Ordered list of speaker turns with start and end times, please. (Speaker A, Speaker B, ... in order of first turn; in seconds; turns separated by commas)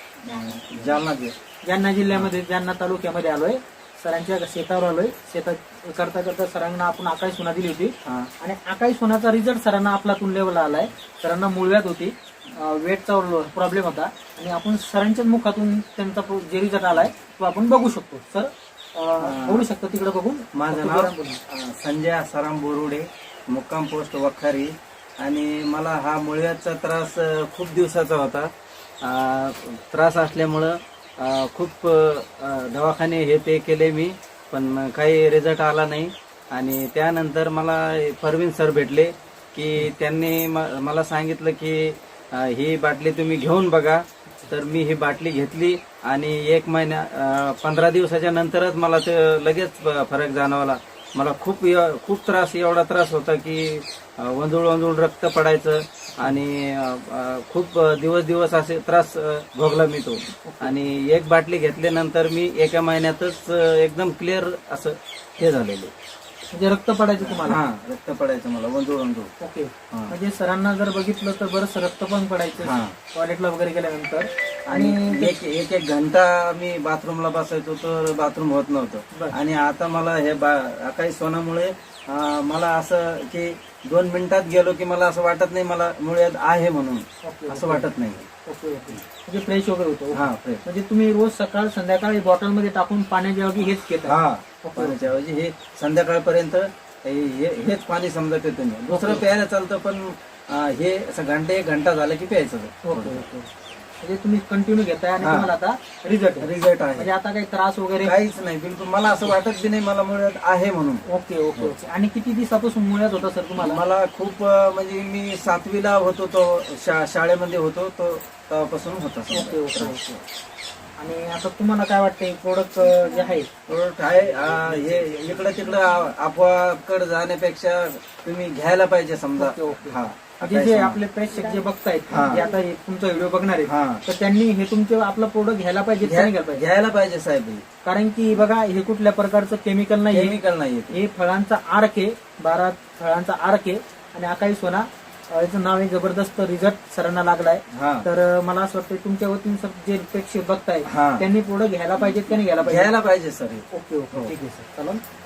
Speaker A: 0.2-1.4, Speaker B: 1.7-21.4, Speaker A: 8.1-8.3, Speaker A: 19.2-19.7, Speaker A: 20.6-28.5, Speaker A: 29.0-65.9, Speaker B: 60.4-60.8, Speaker B: 66.5-67.6, Speaker A: 67.2-69.3, Speaker B: 69.4-75.4, Speaker A: 72.6-73.0, Speaker A: 74.7-88.3, Speaker B: 87.2-87.9, Speaker B: 88.5-95.1, Speaker A: 90.1-90.6, Speaker A: 94.0-103.3, Speaker B: 98.9-99.3, Speaker B: 102.8-103.5, Speaker B: 104.0-108.2, Speaker A: 105.2-105.5, Speaker A: 106.4-107.1, Speaker A: 108.0-111.0, Speaker B: 111.1-113.8, Speaker A: 113.6-120.2, Speaker B: 119.3-120.0, Speaker B: 121.0-123.5, Speaker A: 123.7-131.0, Speaker B: 129.4-136.6, Speaker A: 132.1-132.4, Speaker A: 133.7-134.0, Speaker A: 136.0-137.6, Speaker B: 137.8-140.4, Speaker A: 140.1-141.0, Speaker B: 140.9-152.9, Speaker A: 147.7-148.1, Speaker A: 150.9-151.3, Speaker A: 152.0-154.3, Speaker B: 153.7-155.0